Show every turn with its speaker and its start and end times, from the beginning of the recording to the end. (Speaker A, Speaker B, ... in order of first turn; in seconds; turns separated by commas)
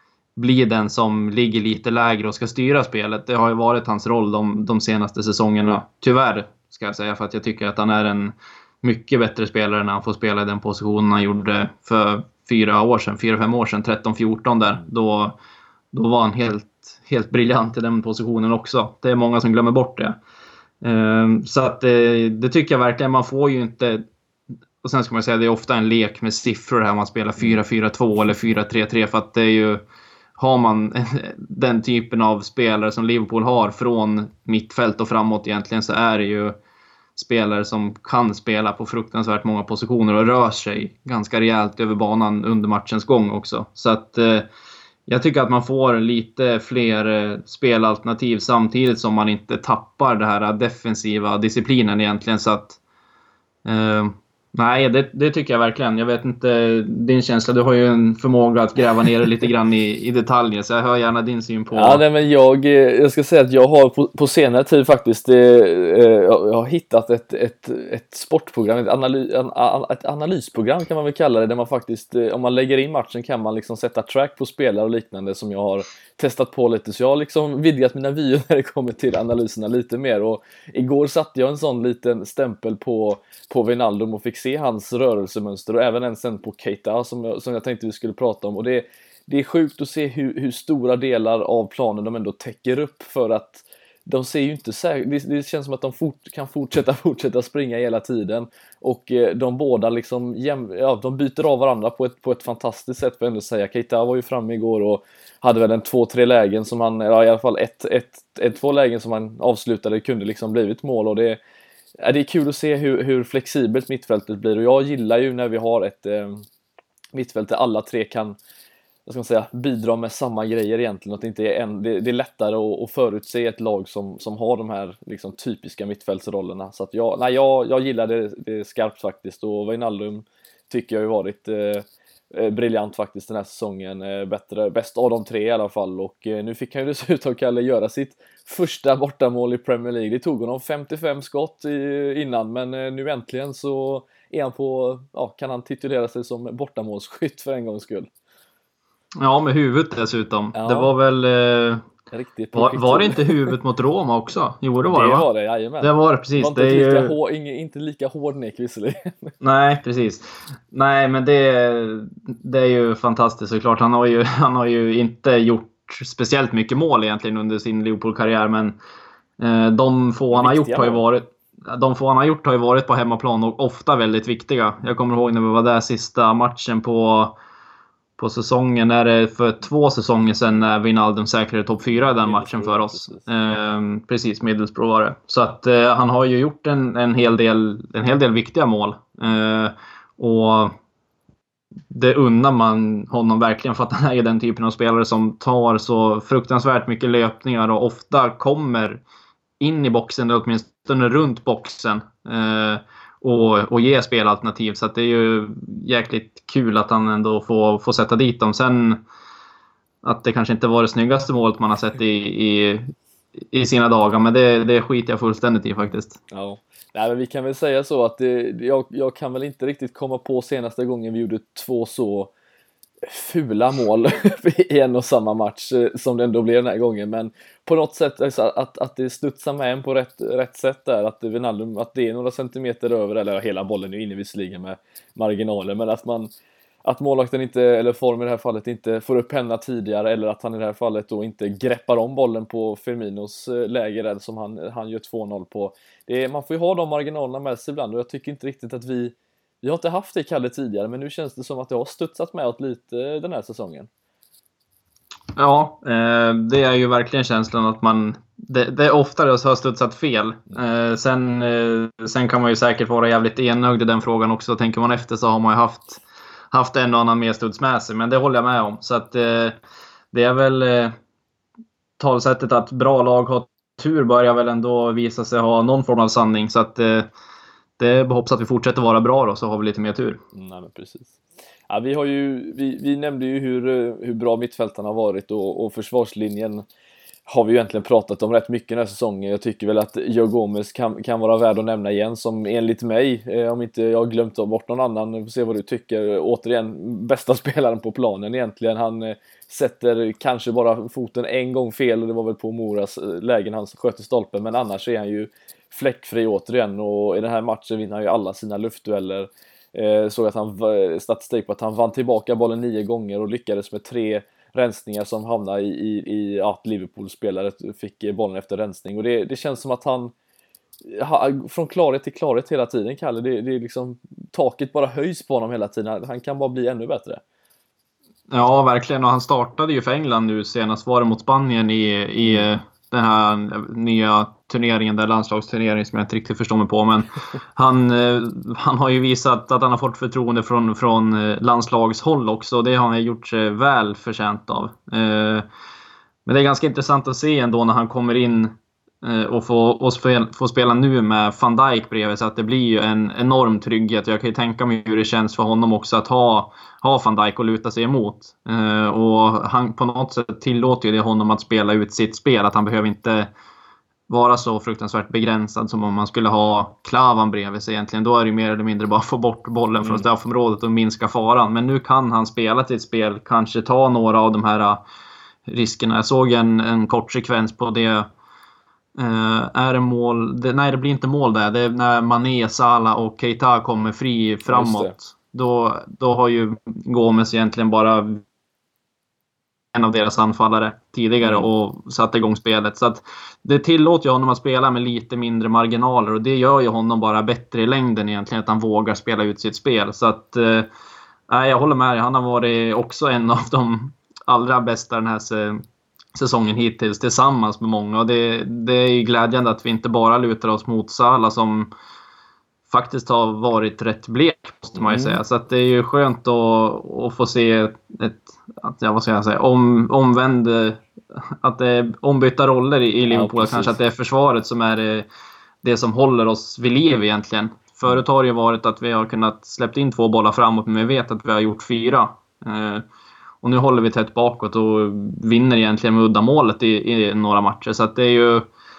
Speaker A: 0.4-15.4, Speaker A: 15.9-20.2, Speaker A: 20.8-24.0, Speaker A: 24.8-29.8, Speaker A: 30.4-36.6, Speaker A: 37.2-44.5, Speaker A: 45.1-52.8, Speaker A: 53.6-62.0, Speaker B: 61.7-111.4, Speaker B: 112.0-116.4, Speaker B: 117.1-118.4, Speaker B: 119.1-148.1, Speaker A: 149.2-151.9, Speaker B: 150.5-150.9, Speaker B: 152.1-153.5, Speaker A: 152.6-155.2, Speaker B: 154.9-159.3, Speaker A: 155.8-157.1, Speaker A: 159.4-168.8, Speaker A: 169.4-177.4, Speaker B: 170.3-171.0, Speaker A: 178.2-190.8, Speaker B: 182.2-183.3, Speaker A: 191.9-199.0, Speaker A: 199.6-209.0, Speaker A: 210.0-216.2, Speaker B: 216.3-222.3, Speaker B: 223.0-236.3, Speaker B: 236.8-253.9, Speaker A: 255.4-269.6, Speaker A: 270.1-270.9, Speaker A: 272.0-277.1, Speaker A: 277.8-280.2, Speaker B: 280.3-281.2, Speaker B: 281.7-286.6, Speaker B: 287.3-320.1, Speaker B: 320.9-327.2, Speaker A: 328.3-345.5, Speaker B: 332.2-332.5, Speaker A: 346.3-363.3, Speaker A: 364.1-374.8, Speaker B: 369.8-370.1, Speaker A: 375.5-378.1, Speaker A: 379.0-388.2, Speaker B: 384.5-384.9, Speaker A: 389.7-400.7, Speaker B: 391.2-391.5, Speaker A: 401.3-405.6, Speaker A: 406.1-411.7, Speaker A: 412.7-425.1, Speaker B: 414.8-415.2, Speaker B: 423.1-423.8, Speaker A: 425.6-432.9, Speaker A: 433.4-438.5